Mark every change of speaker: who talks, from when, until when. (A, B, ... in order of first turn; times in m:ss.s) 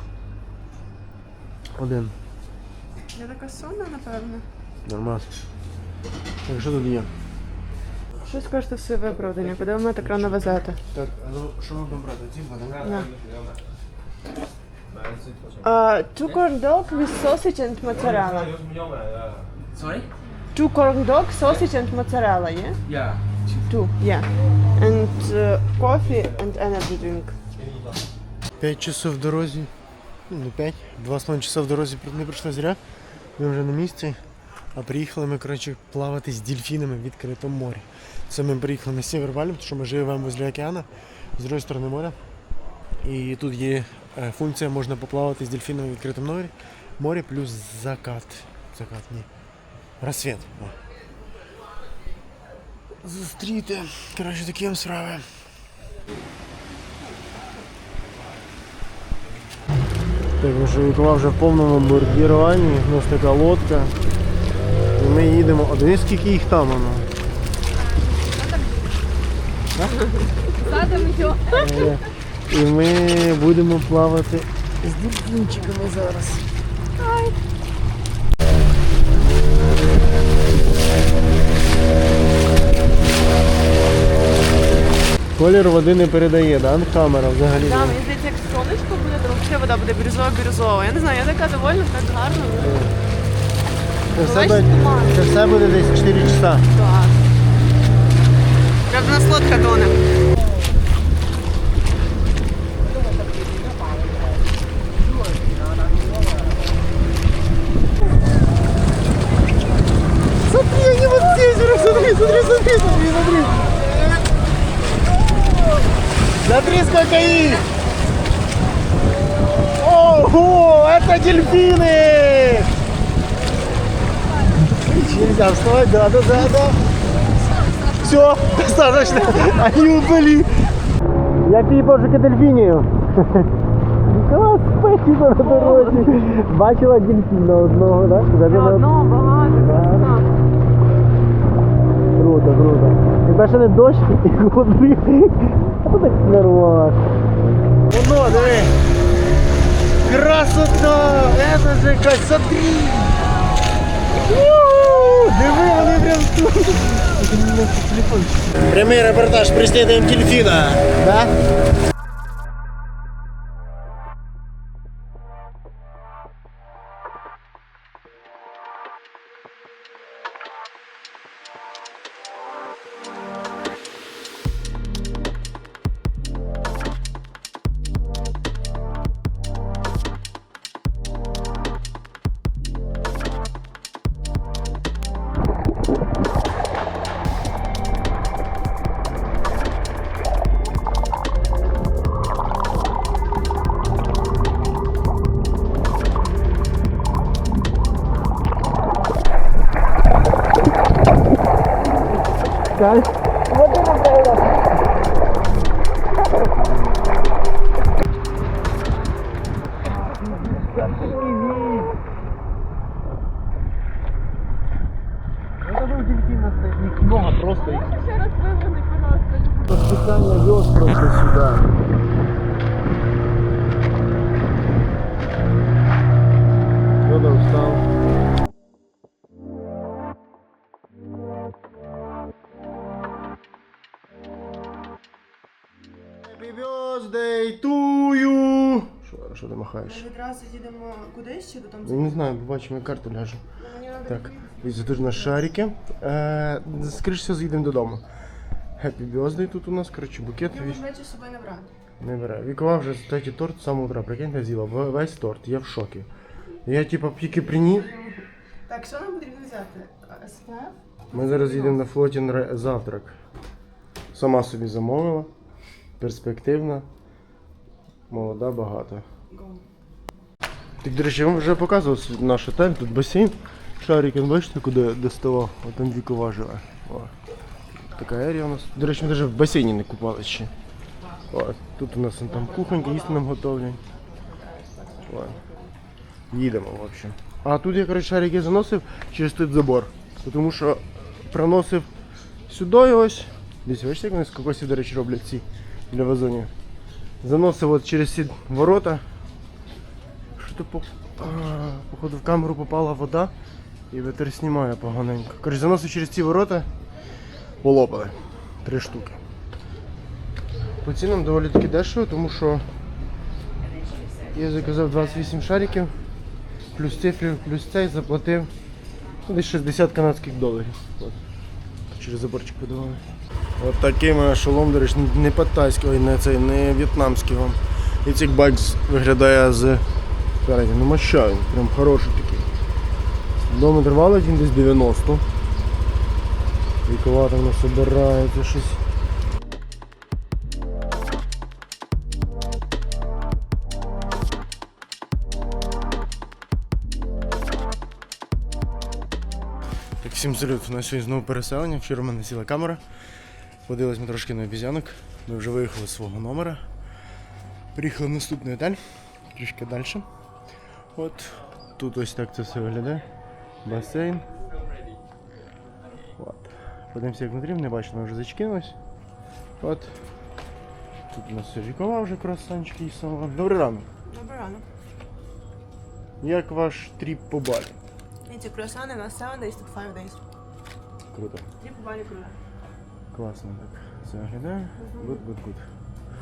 0:01.8-0:02.1 A
0:03.1-0:04.5 B
0:04.9-0:05.3 A
0:06.5-0:07.1 A
0:08.2-0:10.8 B
0:10.0-0:13.0 A
0:12.8-0:13.1 B
0:12.8-0:13.4 C
0:14.9-0:15.6 C
0:15.6-0:18.6 B
0:18.1-0:20.1 C
0:20.5-0:22.8 B
0:22.9-0:23.6 C
0:23.7-0:27.4 B
0:28.6-0:29.7 A
0:30.3-0:32.8 A
0:33.4-0:34.2 A
0:34.7-0:42.2 A
0:43.0-0:49.3 A
0:50.0-0:50.8 A
0:53.0-0:55.3 A
1:00.4-1:03.9 A
1:05.0-1:07.1 A
1:08.0-1:08.8 B
1:09.8-1:10.1 A
1:10.4-1:11.8 B
1:11.5-1:16.4 A
1:17.0-1:17.4 B
1:25.4-1:28.0 A
1:27.6-1:32.9 B
1:32.6-1:32.9 A
1:34.1-1:36.7 A
1:34.2-1:35.3 B
1:36.7-1:37.2 B
1:38.9-1:40.0 B
1:43.1-1:44.0 C
1:45.2-1:46.5 C
1:50.4-1:53.8 A
1:56.4-1:57.6 A
1:59.7-2:02.7 A
2:04.8-2:06.8 A
2:07.9-2:10.6 A
2:11.4-2:13.5 A
2:14.1-2:18.9 A
2:15.4-2:16.2 B
2:18.4-2:20.3 B
2:19.5-2:20.1 A
2:22.1-2:27.1 A
2:27.9-2:28.8 A
2:30.0-2:33.2 A
2:34.2-2:41.4 A
3:22.8-3:23.1 A
3:23.6-3:24.3 B
3:29.6-3:31.9 A
3:35.6-3:37.9 A
3:37.6-3:39.8 B
3:39.6-3:41.7 A
3:47.0-3:47.8 A
3:56.2-4:00.1 A
3:59.8-4:02.3 B
4:01.8-4:03.4 A
4:03.6-4:05.3 B
4:04.0-4:08.0 A
4:08.8-4:10.8 A
4:10.4-4:11.7 B
4:12.0-4:16.1 A
4:16.6-4:17.9 A
4:17.3-4:21.8 B
4:21.1-4:23.2 A
4:24.1-4:25.3 A
4:26.0-4:26.9 A
4:28.1-4:29.0 A
4:29.3-4:29.6 B
4:30.8-4:37.1 A
4:37.9-4:40.5 A
4:41.3-4:43.8 A
4:42.3-4:43.2 B
4:44.2-4:45.7 B
4:45.1-4:45.4 A
4:46.3-4:51.9 A
4:52.5-4:56.5 A
4:57.2-4:59.0 A
5:00.4-5:03.3 A
5:03.9-5:06.7 A
5:07.6-5:09.2 A
5:10.8-5:12.7 A
5:14.3-5:15.9 A
5:16.7-5:18.5 A
5:19.2-5:21.2 A
5:21.9-5:23.0 A
5:23.6-5:29.8 A
5:30.4-5:32.5 A
5:33.4-5:35.2 A
5:36.9-5:38.8 A
5:50.0-5:52.8 A
5:53.7-5:56.6 A
5:57.8-6:00.0 A
6:01.0-6:03.0 A
6:03.6-6:04.3 A
6:06.2-6:08.8 A
6:09.6-6:09.9 A
6:11.1-6:13.9 A
6:14.1-6:14.6 B
6:16.2-6:17.8 A
6:18.3-6:20.2 B
6:21.1-6:21.5 A
6:21.6-6:22.4 B
6:23.1-6:25.7 A
6:24.8-6:25.2 B